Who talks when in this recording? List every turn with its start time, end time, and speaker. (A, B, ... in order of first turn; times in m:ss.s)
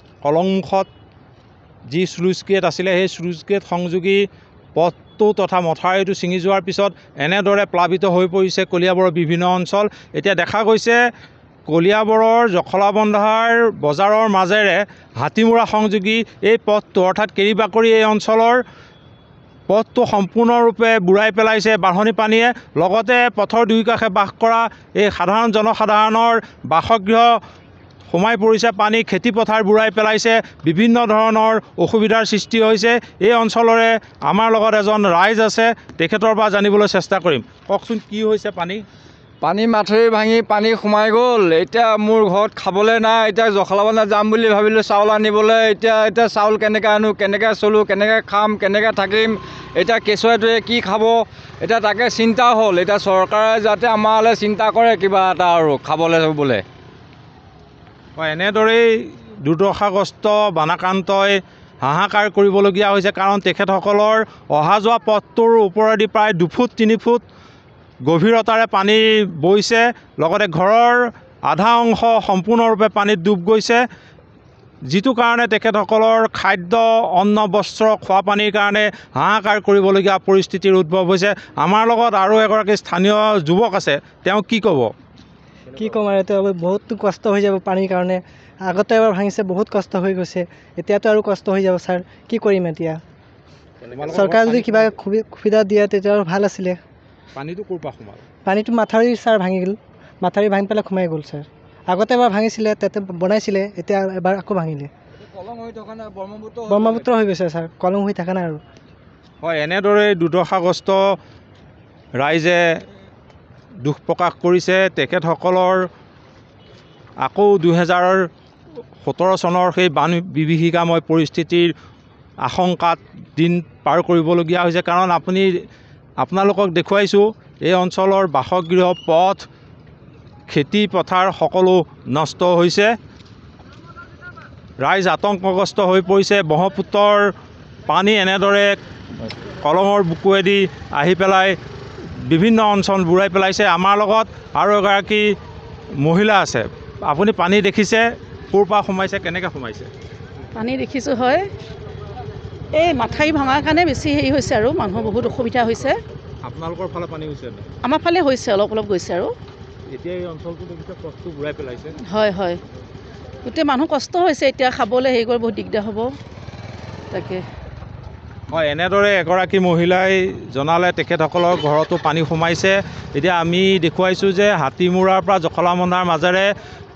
0:00.2-0:00.9 A
0:01.9-0:04.2 A
0:04.8-0:11.0 A
0:11.7-0:18.6 A
0:19.7-0:27.4 A
0:28.1-0:38.8 A
0:39.4-0:56.6 B
0:58.2-1:07.2 A
1:08.1-1:13.8 A
1:14.9-1:24.9 A
1:25.7-1:33.0 C
1:33.8-1:34.9 A
1:34.1-1:36.8 C
1:37.4-1:38.2 A
1:38.4-1:44.9 C
1:45.2-1:47.0 B
1:46.7-1:48.6 C
1:49.4-1:51.0 A
1:52.2-1:52.6 A
1:53.8-1:55.9 A
1:57.2-1:58.3 A
1:59.0-2:01.7 A
2:02.4-2:05.6 A
2:06.2-2:09.5 A
2:10.5-2:12.9 A
2:14.8-2:17.3 A
2:17.9-2:18.8 A
2:19.3-2:21.6 A
2:22.2-2:25.3 A
2:26.0-2:29.9 A
2:30.6-2:31.4 D
2:32.8-2:36.0 D
2:36.4-2:37.7 A
2:37.8-2:39.3 D
2:39.9-2:42.0 A
2:42.1-2:42.6 D
2:43.4-2:46.1 D
2:47.1-2:47.4 D
2:48.5-2:56.5 A